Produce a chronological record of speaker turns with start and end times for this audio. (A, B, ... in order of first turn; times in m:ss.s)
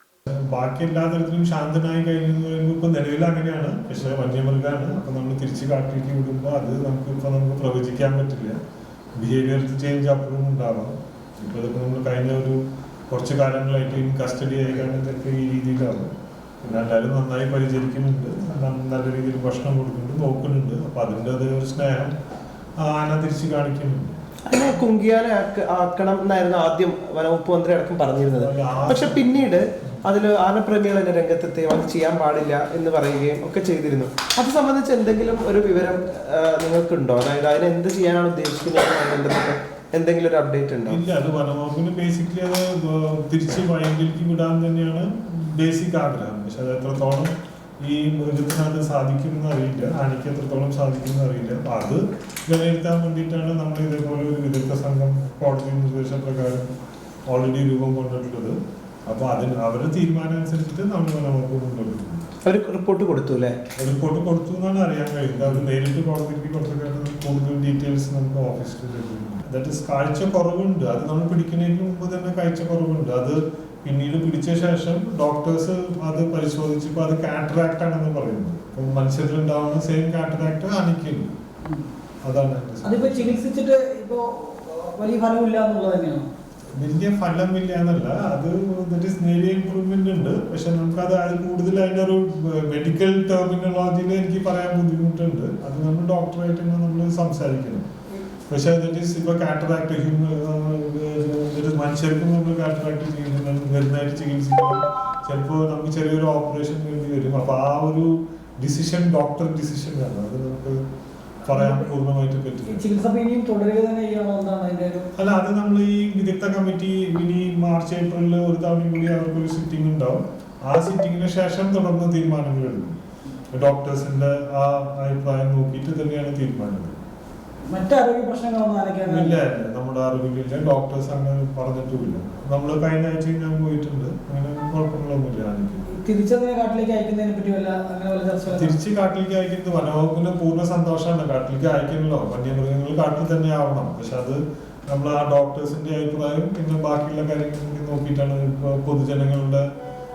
0:00.3-0:08.6 A
0:09.2-0:16.1 A
0:16.6-0:22.1 A
0:22.8-0:24.2 A
0:24.5-0:41.0 B
0:28.4-0:30.0 A
0:40.9-0:56.7 A
0:57.3-0:58.6 A
0:59.1-1:02.3 A
1:02.4-1:03.6 B
1:03.8-1:21.3 A
1:22.2-1:23.4 A
1:22.8-1:26.3 C
1:26.8-1:37.9 A
1:38.5-1:50.8 A
1:51.4-1:52.8 A
1:51.5-1:51.8 C
1:52.7-1:55.1 C
1:55.2-2:03.0 A
2:03.5-2:07.0 A
2:07.7-2:09.4 C
2:09.0-2:15.8 A
2:15.9-2:18.7 C
2:18.5-2:29.6 A